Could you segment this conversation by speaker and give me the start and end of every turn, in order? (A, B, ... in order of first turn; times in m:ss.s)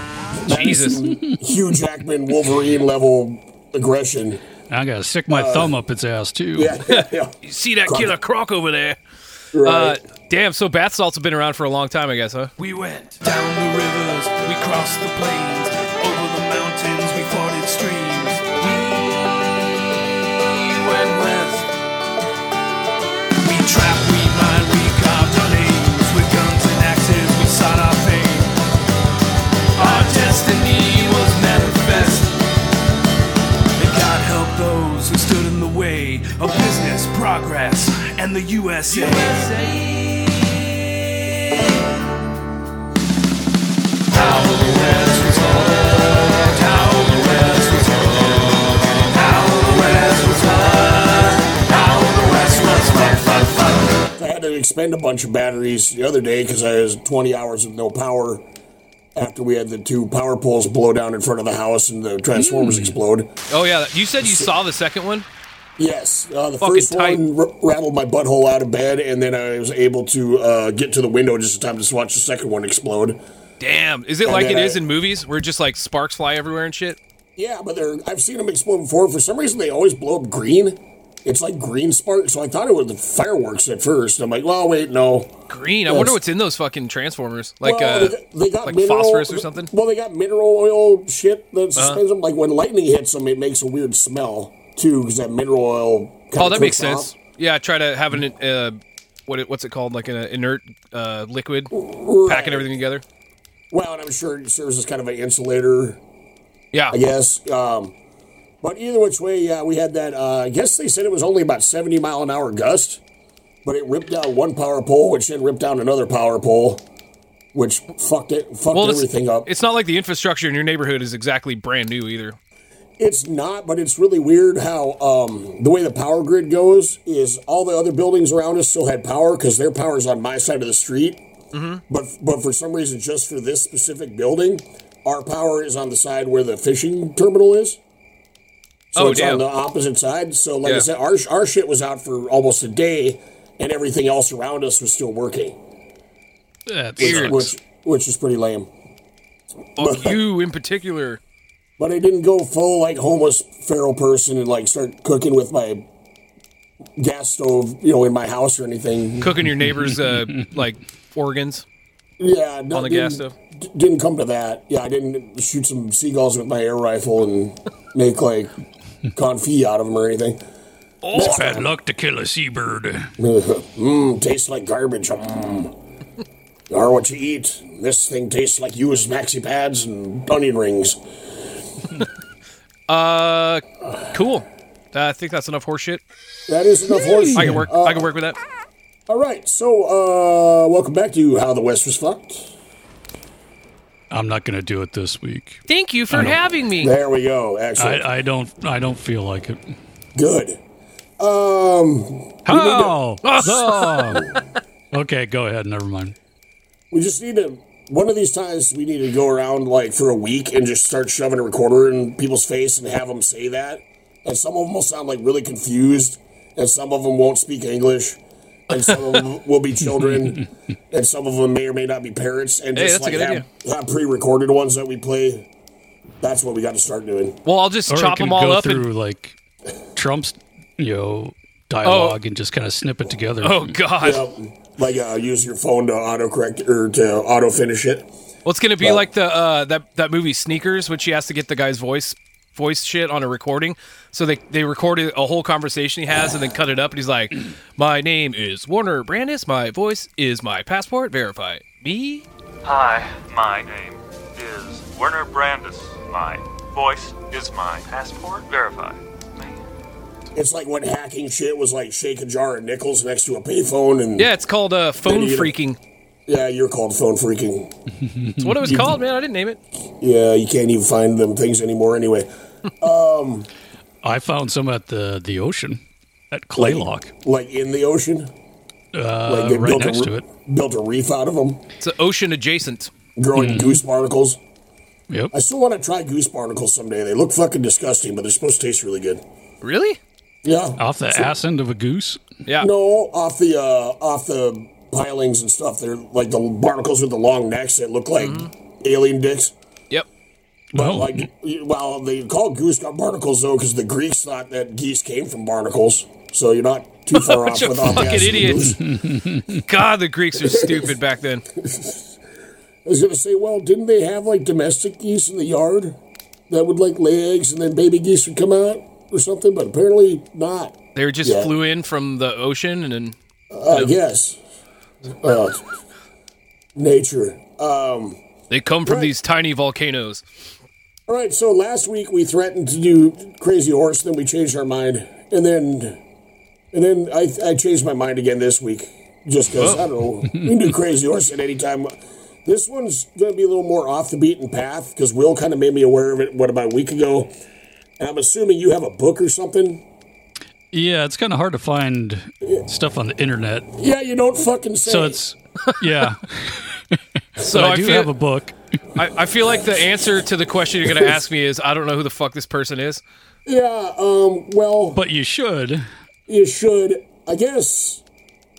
0:00.4-0:04.4 A
0:00.5-0:01.0 B
0:00.6-0:01.0 C
0:04.7-0:06.8 C
0:05.3-0:05.7 A
0:06.5-0:08.1 A
0:06.9-0:09.0 B
0:09.5-0:10.0 A
0:09.6-0:12.5 B
0:12.6-0:19.3 D
0:20.3-0:21.7 D
0:23.5-0:28.5 D
0:29.8-0:32.3 D
0:33.8-0:40.6 D
0:44.1-0:54.0 D
0:54.2-0:58.4 A
0:59.2-1:03.3 A
1:02.3-1:03.0 C
1:03.5-1:05.2 B
1:04.2-1:04.5 A
1:05.8-1:13.2 A
1:06.6-1:07.2 B
1:13.6-1:17.0 B
1:14.2-1:14.8 A
1:17.4-1:25.3 A
1:25.5-1:29.7 B
1:25.9-1:26.2 A
1:27.6-1:37.1 A
1:36.4-1:41.7 B
1:41.7-1:42.7 A
1:42.2-1:43.0 B
1:43.7-1:46.0 A
1:46.9-1:47.9 A
1:48.6-1:53.0 A
1:53.6-1:56.8 A
1:57.5-1:59.5 A
1:58.7-2:02.4 B
2:03.0-2:11.2 A
2:11.5-2:11.8 B
2:11.9-2:17.8 A
2:19.0-2:19.4 B
2:19.0-2:25.6 A
2:26.7-2:27.5 C
2:27.0-2:27.4 B
2:27.0-2:28.7 A
2:29.8-2:31.2 B
2:29.8-2:30.2 A
2:31.8-2:35.8 A
2:37.0-2:39.3 A
2:39.2-2:41.6 B
2:39.7-2:40.5 C
2:42.2-2:48.5 A
2:42.7-2:43.3 B
2:49.1-2:50.4 A
2:51.1-2:51.4 B
2:51.1-2:53.1 C
2:51.1-2:51.7 A
2:53.2-2:55.7 A
2:56.7-3:01.0 A
3:02.9-3:06.0 B
3:06.5-3:08.1 A
3:07.3-3:07.7 C
3:07.3-3:08.4 B
3:09.1-3:12.5 A
3:14.1-3:16.4 C
3:15.7-3:16.9 B
3:16.8-3:18.0 A
3:17.8-3:19.6 C
3:20.2-3:20.6 A
3:21.2-3:23.0 A
3:22.4-3:24.3 C
3:23.2-3:24.2 B
3:24.9-3:26.1 C
3:26.9-3:38.2 A
3:38.7-3:45.4 A
3:38.7-3:39.2 B
3:42.8-3:43.4 B
3:46.2-3:47.4 A
3:47.4-3:48.8 B
3:47.9-3:49.4 C
3:49.9-3:53.8 C
3:51.8-3:52.2 B
3:53.4-3:54.2 B
3:54.0-3:58.1 A
3:58.4-4:12.2 B
4:12.6-4:19.6 E
4:20.3-4:24.3 A
4:24.2-4:25.8 B
4:25.0-4:25.5 A
4:26.3-4:27.7 A
4:28.0-4:28.8 C
4:28.4-4:29.6 B
4:28.6-4:28.9 A
4:30.0-4:32.3 A
4:32.8-4:33.5 A
4:34.0-4:37.1 C
4:36.6-4:38.3 A
4:38.9-4:40.2 C
4:39.2-4:41.6 A
4:41.8-4:42.9 B
4:43.2-4:44.4 A
4:43.3-4:43.8 C
4:45.3-4:49.2 A
4:49.6-4:50.0 B
4:50.4-4:51.3 A
4:50.8-4:52.2 C
4:52.6-4:59.5 A
4:58.2-4:58.5 B
5:00.7-5:01.2 C
5:00.7-5:08.8 A
5:07.1-5:08.8 B
5:08.5-5:09.6 C
5:09.6-5:11.4 B
5:10.4-5:10.9 A
5:11.6-5:12.0 A
5:12.8-5:16.0 A
5:16.5-5:21.5 A
5:20.9-5:23.2 B
5:23.5-5:24.4 A
5:25.1-5:25.6 A
5:26.8-5:28.2 A
5:28.5-5:30.2 B
5:28.8-5:29.1 A
5:31.1-5:36.0 A
5:36.7-5:41.9 A
5:39.6-5:39.8 B
5:42.4-5:47.3 A
5:48.0-5:49.8 A
5:50.7-5:53.7 C
5:53.8-5:55.2 A
5:54.8-5:58.6 C
5:57.4-5:58.1 B
5:59.0-6:03.0 B
6:03.4-6:05.0 A
6:04.9-6:05.9 C
6:06.3-6:08.0 A